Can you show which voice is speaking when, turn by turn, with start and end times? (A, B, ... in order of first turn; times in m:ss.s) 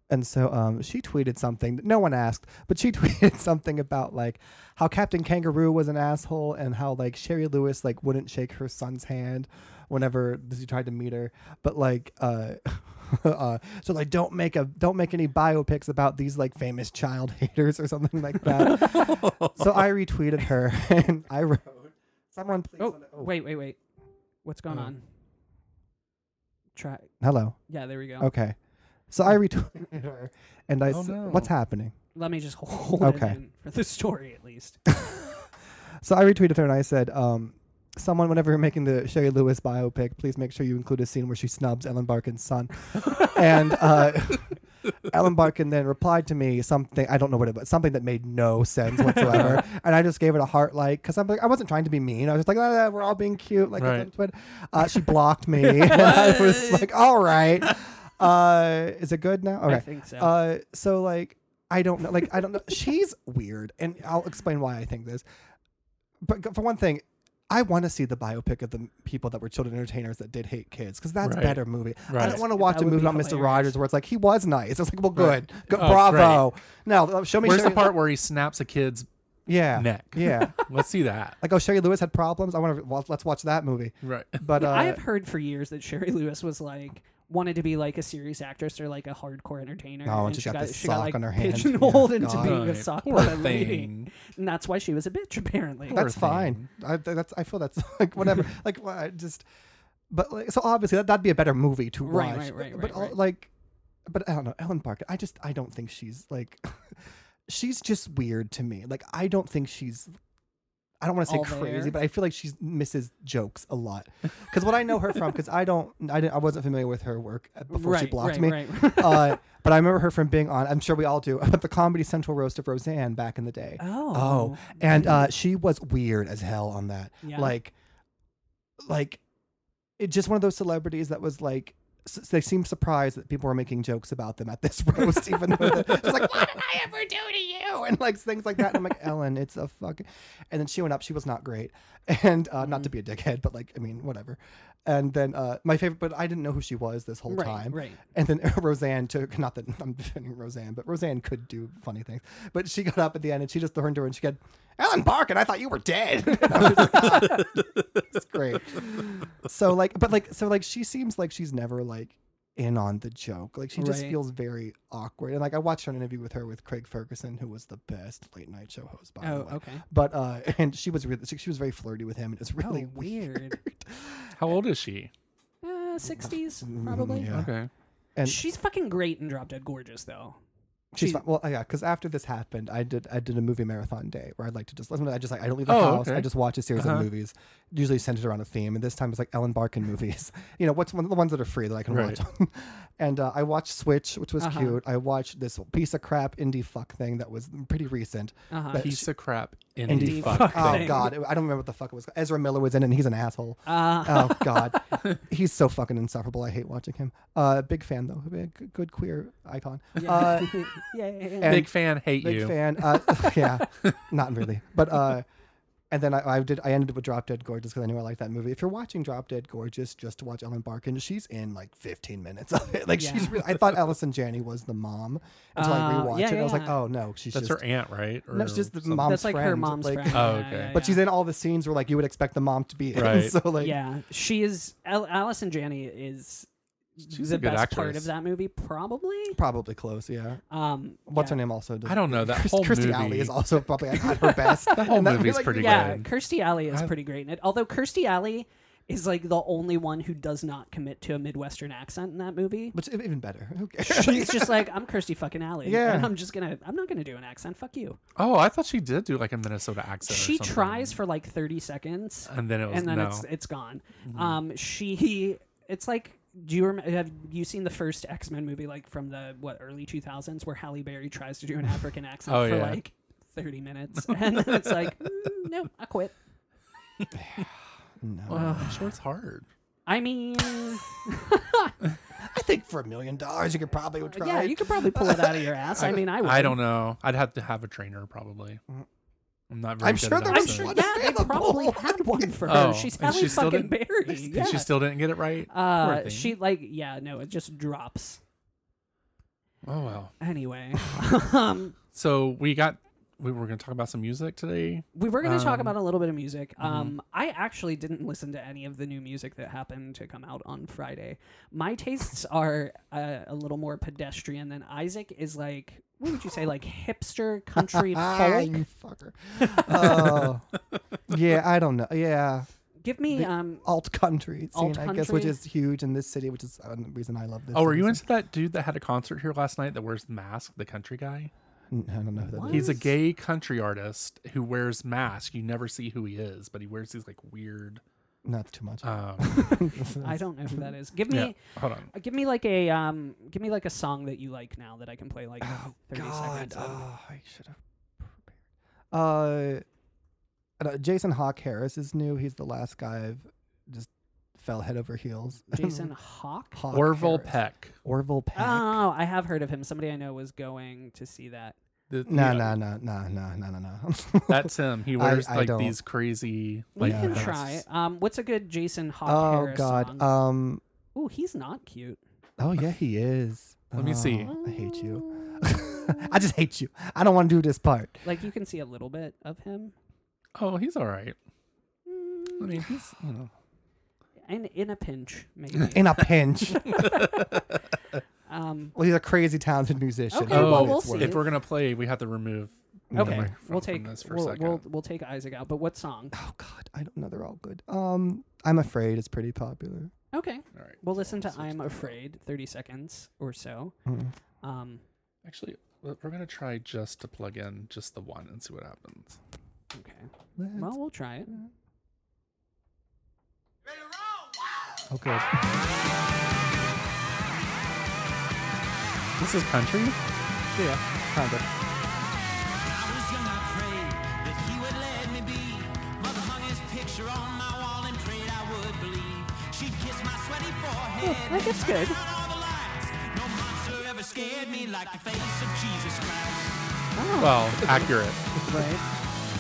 0:00.1-0:23.3 A
0:18.4-0:19.9 B
0:22.8-0:23.8 C
0:24.4-0:25.0 C
0:26.8-0:27.1 C
0:27.2-0:27.6 A
0:27.7-0:28.3 C
0:28.2-0:28.6 A
0:29.1-0:31.9 A
0:30.9-0:31.5 B
0:32.2-0:34.8 C
0:33.0-0:33.4 A
0:34.9-0:35.4 A
0:36.0-1:05.2 A
0:49.2-0:49.6 B
0:53.8-0:54.1 B
0:56.1-0:56.3 C
0:59.6-1:00.3 C
1:06.2-1:18.0 A
1:11.2-1:12.4 B
1:12.2-1:13.8 C
1:15.2-1:16.5 B
1:17.4-1:19.1 B
1:19.5-1:20.6 A
1:19.8-1:21.4 B
1:21.4-1:25.0 A
1:24.0-1:24.4 B
1:24.6-1:36.0 C
1:30.0-1:32.6 A
1:32.4-1:34.1 B
1:35.9-1:39.4 A
1:35.9-1:36.7 B
1:40.1-1:43.5 A
1:42.0-1:43.2 C
1:44.1-1:50.1 A
1:51.0-2:07.8 A
1:51.3-1:52.0 C
1:57.7-1:59.4 C
2:03.8-2:05.2 C
2:07.2-2:07.5 C
2:08.8-2:09.2 A
2:10.0-2:54.5 A
2:22.6-2:22.9 C
2:27.3-2:28.0 C
2:36.3-2:37.5 C
2:43.8-2:44.2 C
2:49.2-2:49.8 C
2:52.6-2:53.6 C
2:54.4-2:55.1 B
2:55.6-2:57.3 C
2:56.1-2:57.5 A
2:57.3-2:57.7 B
2:58.2-2:58.4 A
2:58.2-3:00.4 C
3:00.9-3:19.1 A
3:01.0-3:01.2 C
3:05.7-3:07.1 B
3:11.9-3:12.2 B
3:14.4-3:14.8 C
3:18.5-3:18.9 C
3:18.8-3:21.1 B
3:19.8-3:30.6 A
3:19.9-3:21.1 C
3:23.7-3:25.0 C
3:30.0-3:31.6 C
3:31.4-3:35.3 A
3:31.4-3:32.6 B
3:35.9-3:47.6 A
3:43.0-3:43.4 C
3:45.6-3:46.7 C
3:47.3-3:49.1 B
3:48.3-3:53.8 A
3:49.0-3:51.0 C
3:50.1-3:50.8 B
3:53.0-3:53.4 B
3:53.6-3:59.4 C
3:57.1-3:58.1 B
3:59.3-4:00.4 A
4:00.5-4:01.4 C
4:01.1-4:06.0 A
4:01.8-4:03.8 B
4:04.5-4:06.1 B
4:05.3-4:12.8 C
4:12.7-4:14.7 A
4:13.8-4:18.0 C
4:15.6-4:16.2 A
4:18.2-4:21.0 B
4:20.1-4:36.2 C
4:22.3-4:23.3 B
4:24.1-4:24.4 B
4:32.3-4:32.8 B
4:34.1-4:34.9 B
4:37.1-4:38.6 A
4:38.3-4:39.5 B
4:38.3-4:38.9 C
4:39.9-4:41.8 C
4:42.2-4:45.9 A
4:44.1-4:46.6 C
4:45.9-4:48.6 B
4:49.5-4:51.0 B
4:49.8-4:52.7 A
4:50.3-4:54.7 C
4:52.4-4:56.4 B
4:55.5-4:58.2 C
4:59.6-5:00.1 B
5:00.2-5:01.8 C
5:01.9-5:05.8 B
5:05.0-5:18.6 C
5:06.6-5:06.9 B
5:17.7-5:20.5 A
5:19.4-5:20.3 C
5:21.1-5:22.5 A
5:22.8-5:23.6 C
5:23.1-5:28.0 A
5:24.5-5:25.4 C
5:27.5-5:31.3 B
5:31.7-5:32.9 A
5:32.2-5:32.8 C
5:32.5-5:37.8 B
5:38.2-5:40.2 A
5:38.8-5:39.7 B
5:39.7-5:41.4 C
5:41.1-5:41.9 B
5:41.9-5:46.8 C
5:45.4-5:48.3 A
5:48.9-5:49.6 A
5:50.6-5:55.9 A
5:55.5-5:56.6 C
5:56.6-5:58.8 A
5:56.7-5:57.8 B
5:58.4-6:01.6 C
6:01.9-6:02.6 B
6:02.1-6:05.8 A
6:04.3-6:07.6 B
6:06.8-6:10.1 C
6:06.8-6:07.3 A
6:09.1-6:10.6 A
6:11.0-6:12.0 C
6:12.4-6:18.0 A
6:13.8-6:14.3 B
6:14.2-6:16.2 C
6:18.0-6:19.7 C
6:20.4-6:21.2 B
6:21.9-6:22.7 C
6:22.4-6:23.3 B
6:24.3-6:27.4 C
6:25.7-6:26.9 A
6:28.3-6:28.8 C
6:28.8-6:31.2 A
6:30.1-6:31.3 C
6:30.3-6:34.6 B
6:32.9-6:33.3 A
6:32.9-6:36.2 C
6:36.1-6:39.9 A
6:40.1-6:43.8 C
6:40.5-6:42.0 B
6:43.9-6:44.1 A
6:44.4-6:44.8 C
6:45.2-6:49.2 B
6:49.7-6:51.4 C
6:50.4-6:50.8 A
6:54.9-6:55.4 A
6:59.2-7:00.0 B
7:00.6-7:01.5 A
7:02.5-7:16.6 D
7:11.0-7:12.0 C
7:17.0-7:17.8 C
7:17.2-7:18.3 B
7:18.4-7:18.8 C